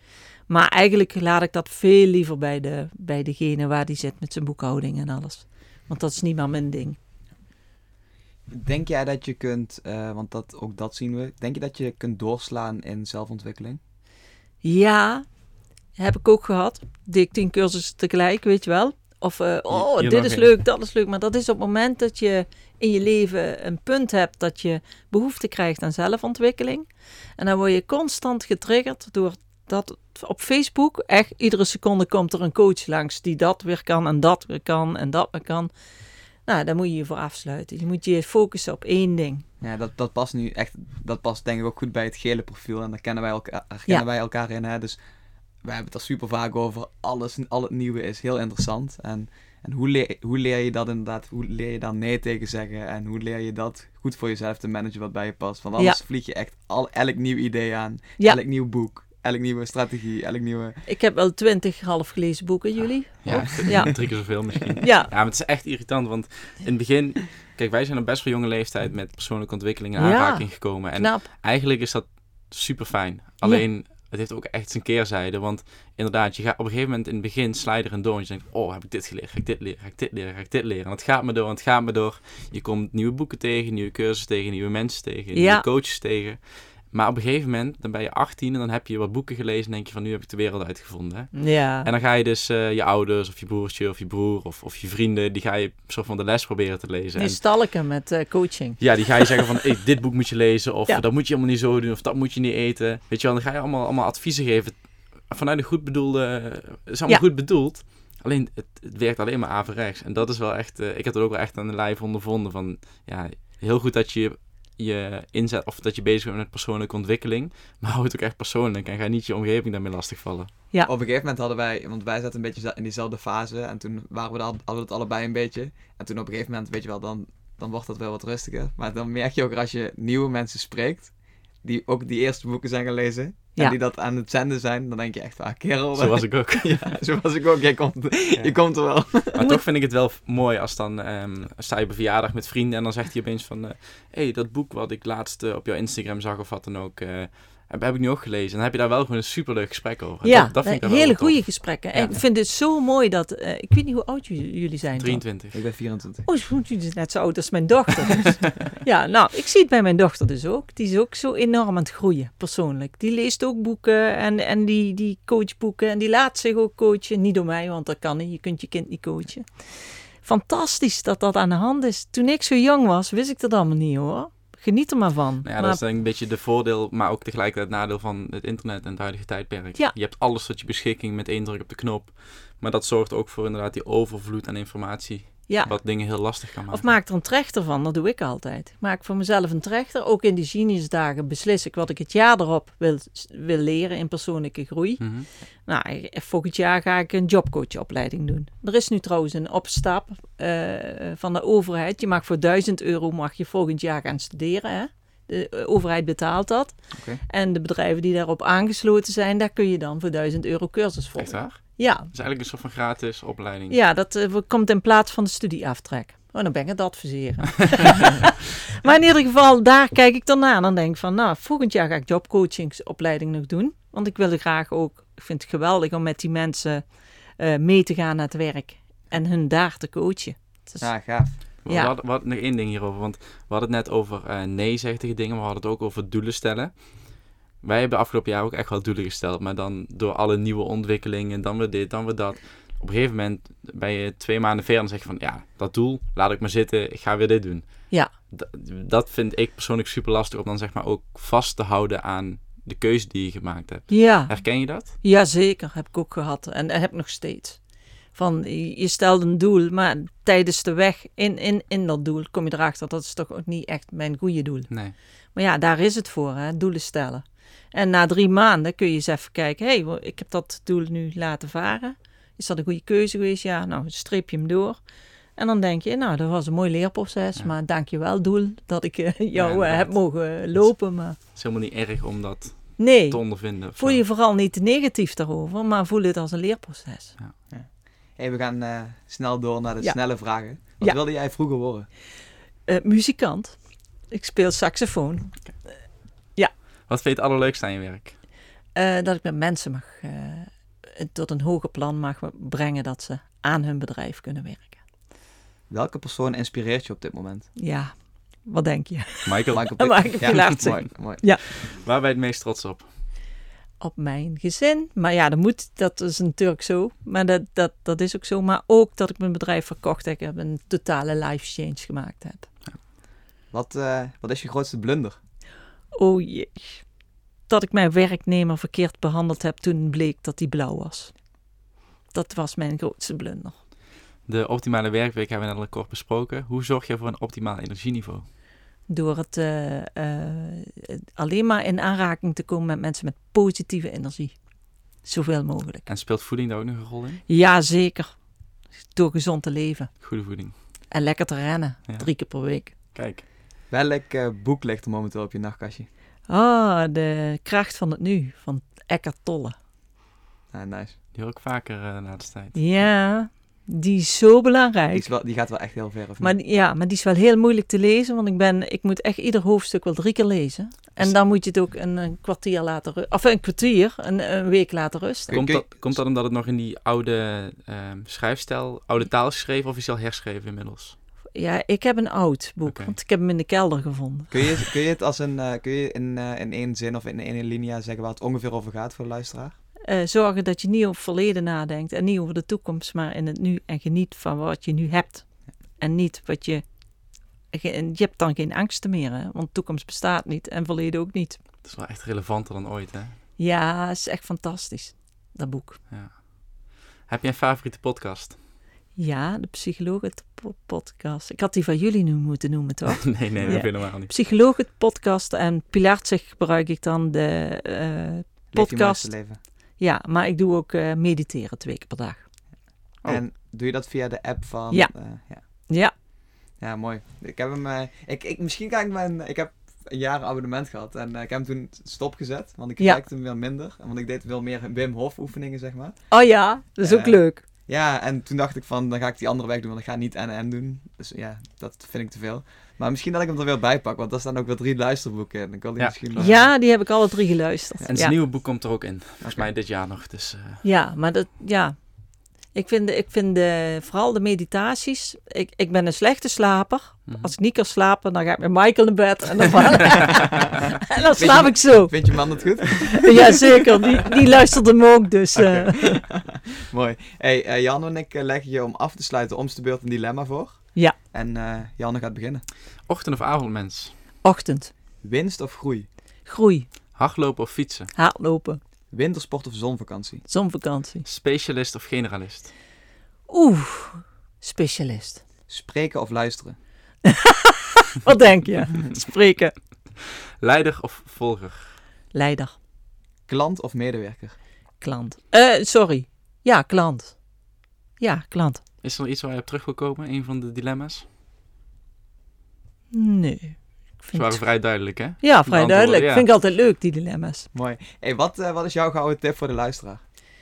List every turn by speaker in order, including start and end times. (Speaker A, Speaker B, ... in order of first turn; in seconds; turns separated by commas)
Speaker A: 0.5-7.0, Speaker B: 8.5-13.8, Speaker A: 14.6-15.3, Speaker A: 15.9-35.7, Speaker C: 20.0-20.4, Speaker A: 36.5-39.5, Speaker B: 39.6-45.0, Speaker B: 45.6-60.8, Speaker A: 60.9-65.1, Speaker C: 63.2-97.4, Speaker B: 63.3-63.8, Speaker A: 70.0-71.3, Speaker A: 73.4-73.7, Speaker A: 85.3-85.6, Speaker A: 91.3-91.9, Speaker A: 97.2-99.4, Speaker C: 98.8-120.5, Speaker B: 120.8-139.4, Speaker C: 135.9-137.0, Speaker C: 138.4-152.2, Speaker A: 150.2-155.2, Speaker C: 155.0-155.6, Speaker B: 155.5-156.3, Speaker A: 156.2-175.8, Speaker C: 175.4-186.9, Speaker A: 185.5-212.1, Speaker C: 195.0-195.3, Speaker B: 206.9-207.2, Speaker C: 211.2-213.8, Speaker A: 213.7-231.9, Speaker B: 230.8-231.4, Speaker C: 231.6-254.9, Speaker A: 253.9-274.8, Speaker C: 264.7-264.9, Speaker A: 275.4-281.2, Speaker C: 279.3-284.0, Speaker A: 282.8-287.2, Speaker B: 287.5-291.9, Speaker A: 289.8-291.0, Speaker A: 292.7-295.8, Speaker C: 296.9-298.2, Speaker A: 298.7-304.8, Speaker B: 305.7-307.5, Speaker A: 307.6-311.4, Speaker C: 309.3-310.6, Speaker B: 309.5-311.3, Speaker C: 311.2-312.9, Speaker A: 313.8-322.5, Speaker B: 323.5-325.2, Speaker A: 325.9-326.9, Speaker A: 327.5-331.3, Speaker A: 332.1-333.6, Speaker C: 334.3-338.3, Speaker A: 338.9-344.4, Speaker A: 345.0-345.9, Speaker C: 345.9-347.2, Speaker A: 347.3-348.2, Speaker A: 348.9-350.0, Speaker C: 350.0-350.6, Speaker A: 350.9-352.7, Speaker C: 351.9-353.2, Speaker B: 353.7-355.9, Speaker A: 356.3-359.6, Speaker B: 360.5-360.9, Speaker C: 361.1-362.6, Speaker A: 362.6-365.1, Speaker B: 364.9-366.3, Speaker A: 366.2-375.4, Speaker B: 375.3-376.0, Speaker C: 375.3-380.9, Speaker A: 381.3-384.7, Speaker C: 382.7-382.9, Speaker B: 384.3-389.6, Speaker A: 389.9-396.7, Speaker A: 397.5-401.4, Speaker C: 401.6-403.2, Speaker A: 403.4-405.8, Speaker C: 405.9-408.4, Speaker A: 408.9-419.1, Speaker C: 413.0-414.1, Speaker B: 413.4-413.7, Speaker B: 418.5-419.4, Speaker A: 419.8-422.3, Speaker B: 423.0-425.4, Speaker A: 424.7-424.9, Speaker A: 425.5-425.9, Speaker B: 426.6-436.1, Speaker A: 436.1-437.4, Speaker B: 436.8-446.3, Speaker C: 445.8-446.5, Speaker A: 446.2-448.2, Speaker C: 447.9-450.6, Speaker B: 449.2-449.5, Speaker A: 450.6-451.8, Speaker A: 452.5-466.0, Speaker C: 457.1-457.3, Speaker B: 461.2-463.4, Speaker B: 465.3-472.4, Speaker C: 472.9-473.9, Speaker A: 474.2-474.7, Speaker B: 475.0-475.9, Speaker A: 476.2-476.7, Speaker C: 476.9-477.9, Speaker A: 477.9-478.6, Speaker B: 478.9-480.2, Speaker A: 480.3-481.1, Speaker C: 481.1-482.5, Speaker A: 483.3-485.2, Speaker B: 485.5-486.6, Speaker A: 487.1-489.6, Speaker C: 490.4-491.8, Speaker A: 492.1-492.5, Speaker B: 493.3-494.4, Speaker A: 494.8-497.2, Speaker A: 498.0-498.6, Speaker C: 498.8-501.1, Speaker A: 502.9-504.6, Speaker C: 504.1-506.3, Speaker A: 505.2-507.5, Speaker B: 507.5-510.0